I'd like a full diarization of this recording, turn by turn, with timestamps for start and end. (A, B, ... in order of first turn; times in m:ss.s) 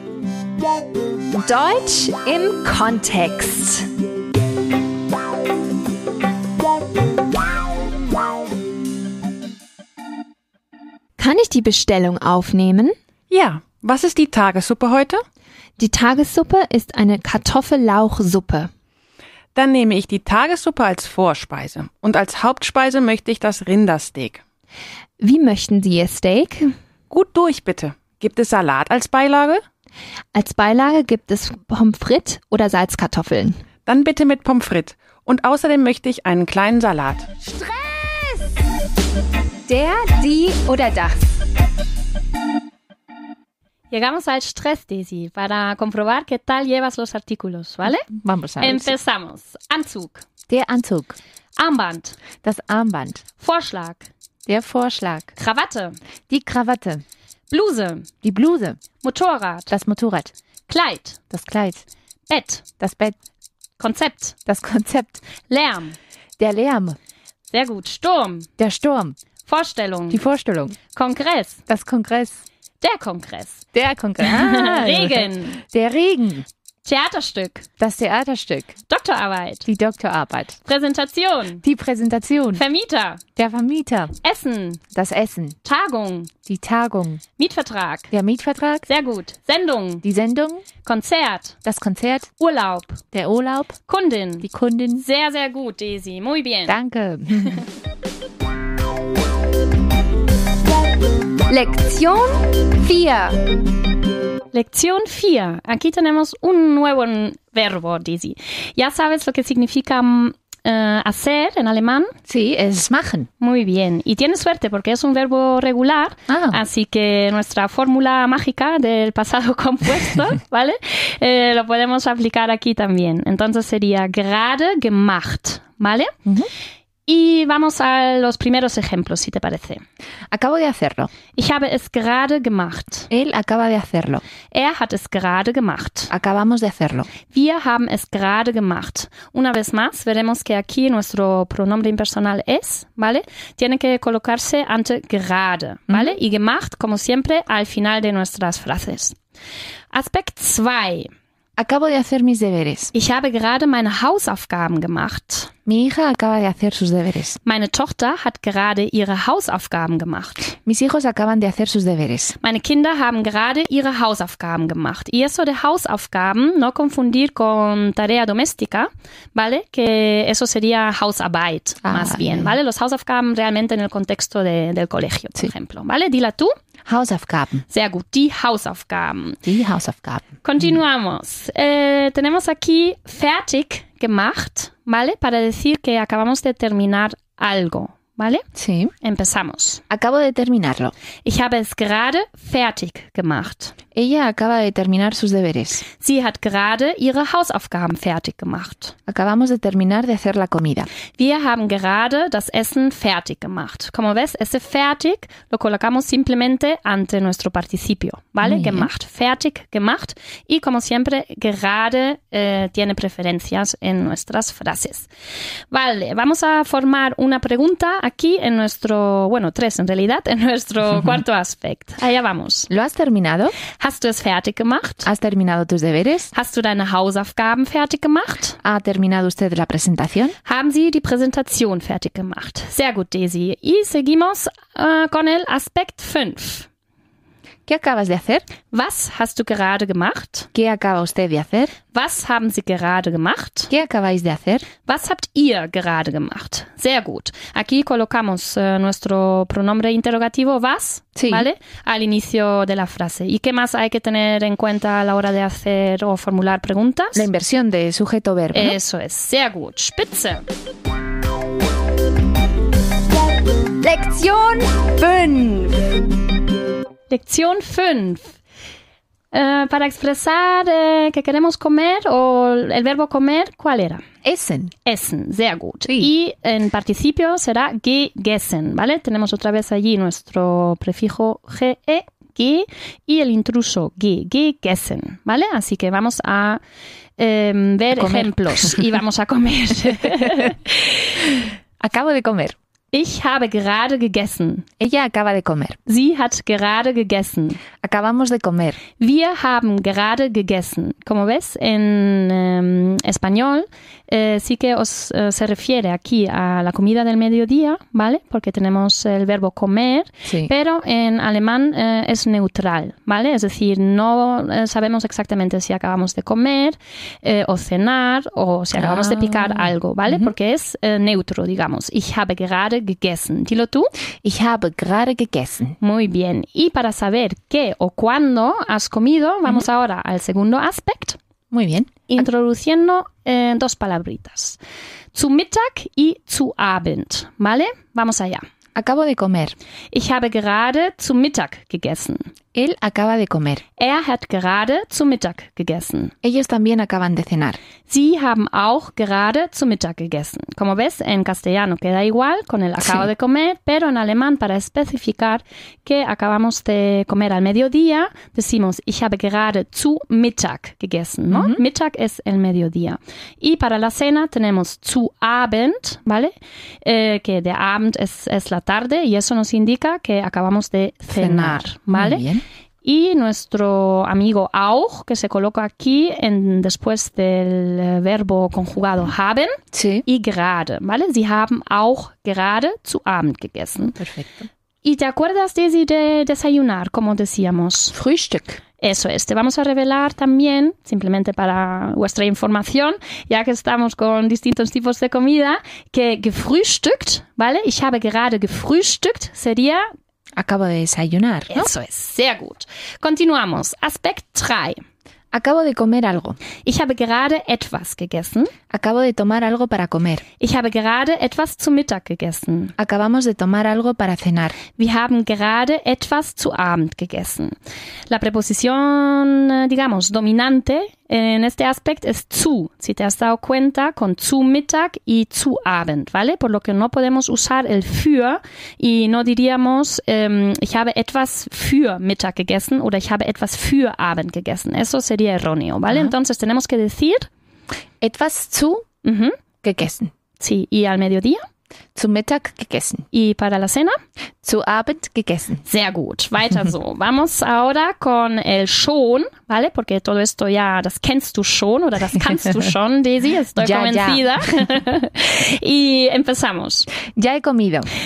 0:01.3-0:03.9 A
0:11.2-0:12.9 A
0:13.3-0:15.2 B
0:15.8-0:18.7 A
0:19.5-0:24.4 B
0:25.2-0:26.7 A
0:27.1-0:29.6 B
0:30.3-0:33.6 A
0:33.8-0:37.3 B
0:37.4-0:38.4 A
0:39.7-0:41.4 A
0:43.9-0:48.1 C
0:48.1-0:48.9 D
0:48.6-0:50.2 C
0:50.5-0:51.2 D
0:51.6-0:52.2 C
0:52.4-0:53.2 D
0:53.4-0:54.1 C
0:54.4-0:55.3 D
0:55.4-0:56.0 C
0:56.3-0:57.0 D
0:57.5-0:58.1 C
0:58.2-0:58.8 D
0:59.0-0:59.7 C
0:59.7-1:00.3 D
1:00.7-1:01.2 C
1:01.3-1:01.8 D
1:02.3-1:02.6 C
1:02.8-1:03.2 D
1:03.8-1:04.4 C
1:04.5-1:05.2 D
1:05.5-1:06.0 C
1:06.4-1:07.0 D
1:07.5-1:08.5 C
1:08.6-1:09.2 D
1:09.4-1:10.2 C
1:10.1-1:10.8 D
1:10.9-1:11.6 C
1:11.7-1:12.4 D
1:12.8-1:13.6 C
1:13.7-1:16.4 D
1:14.2-1:15.6 C
1:16.8-1:17.7 C
1:17.8-1:18.8 D
1:18.9-1:19.7 C
1:19.6-1:20.6 D
1:20.6-1:21.6 C
1:21.6-1:22.6 D
1:22.5-1:23.2 C
1:23.4-1:24.1 D
1:24.2-1:24.8 C
1:24.9-1:25.6 D
1:25.6-1:26.3 C
1:26.4-1:27.2 D
1:27.4-1:28.1 C
1:28.1-1:28.8 D
1:28.9-1:30.0 C
1:30.0-1:30.6 D
1:30.8-1:31.6 C
1:31.6-1:32.3 D
1:32.4-1:33.0 C
1:33.1-1:33.8 D
1:33.9-1:34.5 C
1:34.4-1:35.0 D
1:35.0-1:36.8 C
1:36.7-1:37.6 D
1:41.5-1:43.4 A
1:44.5-1:52.1 C
1:52.3-1:53.3 D
1:53.4-2:06.1 C
1:56.3-1:56.6 D
2:07.1-2:09.8 C
2:10.3-2:11.1 D
2:11.3-2:13.1 C
2:13.1-2:14.2 D
2:14.5-2:16.1 C
2:16.1-2:17.1 D
2:17.2-2:29.2 C
2:25.9-2:26.2 D
2:29.9-2:31.1 C
2:31.6-2:32.9 D
2:32.9-2:35.5 C
2:35.6-2:37.4 D
2:37.4-2:40.5 C
2:40.6-2:42.4 D
2:42.4-2:56.5 C
2:51.8-2:52.5 D
2:56.8-2:57.6 D
2:57.7-2:59.4 C
2:59.4-3:00.7 D
3:00.4-3:08.4 C
3:08.5-3:08.9 D
3:09.0-3:09.8 C
3:09.9-3:10.9 D
3:11.2-3:13.7 C
3:13.9-3:15.8 D
3:16.0-3:18.9 C
3:19.1-3:20.9 D
3:21.2-3:35.1 C
3:28.4-3:28.9 D
3:35.7-3:42.7 C
3:42.7-3:43.5 D
3:43.7-3:45.1 C
3:45.0-3:46.3 D
3:46.3-3:48.6 C
3:48.6-3:50.3 D
3:50.4-3:56.7 C
3:57.7-3:58.4 D
3:58.7-4:00.5 C
4:00.5-4:01.8 D
4:01.9-4:03.7 C
4:03.7-4:04.7 D
4:04.8-4:17.2 C
4:11.2-4:11.5 D
4:17.1-4:18.8 D
4:18.5-4:20.4 C
4:23.8-4:25.9 A
4:27.1-4:28.4 C
4:29.3-4:34.0 C
4:34.2-4:34.7 D
4:34.8-4:46.6 C
4:47.2-4:50.5 C
4:47.9-4:48.8 D
4:50.1-4:50.5 D
4:51.8-4:52.5 D
4:52.9-4:54.6 C
4:54.8-4:55.8 D
4:55.8-4:57.6 C
4:57.8-4:58.8 D
4:59.0-5:23.9 C
5:18.7-5:20.3 D
5:24.2-5:25.8 D
5:25.8-5:31.2 C
5:31.5-5:32.1 D
5:32.1-5:34.6 C
5:35.1-5:38.4 C
5:38.8-5:39.6 D
5:39.9-5:42.3 C
5:42.5-5:43.6 D
5:43.8-5:46.1 C
5:46.2-5:47.6 D
5:47.9-6:12.2 C
5:52.8-5:53.1 D
6:01.3-6:01.6 D
6:11.1-6:12.4 D
6:12.8-6:23.9 C
6:19.7-6:20.0 D
6:23.9-6:24.5 D
6:24.8-6:27.9 C
6:27.9-6:28.6 D
6:28.8-6:39.8 C
6:40.4-6:41.7 D
6:41.5-6:44.8 C
6:45.3-6:46.4 D
6:46.6-6:48.5 C
6:48.7-6:50.2 D
6:50.4-6:52.7 C
6:52.8-6:54.6 D
6:54.7-6:57.6 C
6:58.1-7:17.3 C
7:18.0-7:18.9 D
7:19.0-7:19.4 C
7:19.6-7:20.1 D
7:20.4-7:21.4 C
7:21.9-7:23.0 D
7:23.1-7:23.9 C
7:24.4-7:25.6 D
7:25.6-7:36.9 C
7:33.6-7:34.4 D
7:37.0-7:37.9 D